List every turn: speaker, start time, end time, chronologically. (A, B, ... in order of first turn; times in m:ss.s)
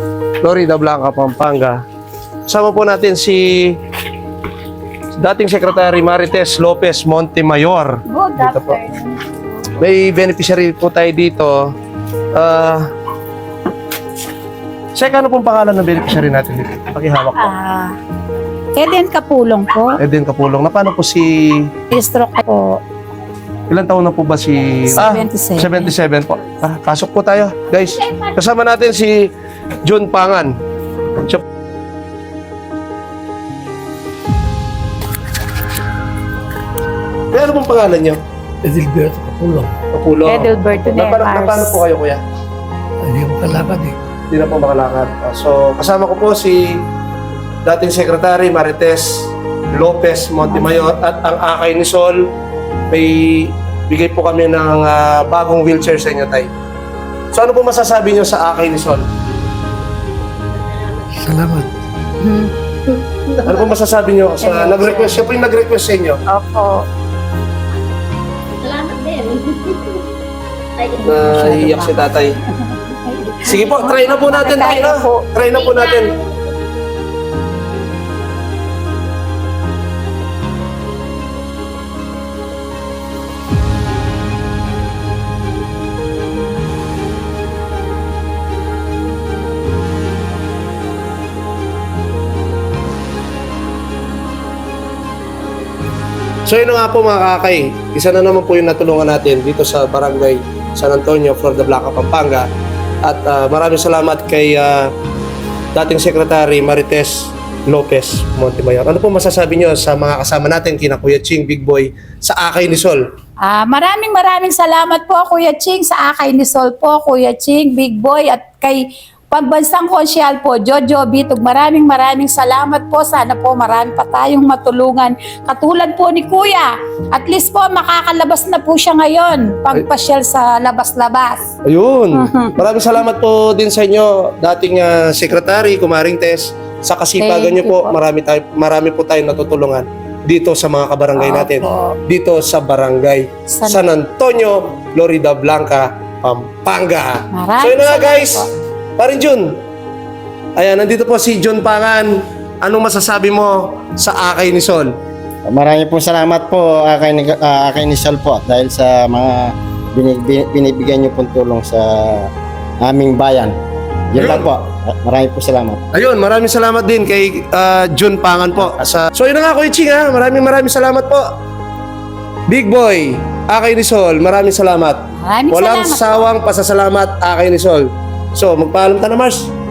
0:00.4-0:01.8 A
0:02.5-0:03.8 A
0:05.2-0:08.8 A
0:08.1-0:09.4 B
0:09.8-0:11.6 A
0:12.4-0:12.8 A
0:15.0-0:17.5 A
0:17.4-0:17.9 B
0:18.7-0:20.0 B
0:20.0-0:21.7 A
0:21.9-0:22.8 B
0:23.7-0:29.3 A
0:24.8-0:25.9 B
0:28.0-0:28.3 B
0:29.8-0:30.5 A
0:37.3-0:38.2 A
0:38.6-0:39.8 C
0:39.9-0:42.2 A
0:40.2-0:41.8 B
0:43.0-0:44.0 C
0:44.3-0:46.8 A
0:47.6-0:52.3 A
0:50.5-0:50.9 B
0:52.9-0:56.5 A
0:57.3-0:59.0 A
1:01.1-1:01.7 C
1:02.2-1:02.5 B
1:03.4-1:06.2 A
1:04.4-1:05.3 B
1:06.3-1:06.8 B
1:08.6-1:10.0 D
1:11.0-1:15.3 B
1:11.0-1:12.3 A
1:13.4-1:16.1 A
1:15.5-1:16.4 D
1:36.5-1:42.5 A
1:43.0-1:44.9 A
1:45.7-1:53.0 A
1:53.4-2:11.5 B
2:11.6-2:28.5 A
2:12.2-2:12.6 B
2:17.2-2:18.0 B
2:21.1-2:22.0 B
2:23.5-2:23.8 B
2:27.3-2:28.5 B
2:29.0-2:29.5 A
2:30.6-2:32.1 A
2:32.6-2:34.9 A
2:35.5-2:42.3 E
2:42.8-2:43.5 E
2:44.1-2:45.8 E
2:44.2-2:44.5 A
2:45.9-2:51.3 A
2:52.5-2:55.0 A
2:55.2-2:56.3 B
2:55.5-2:59.5 A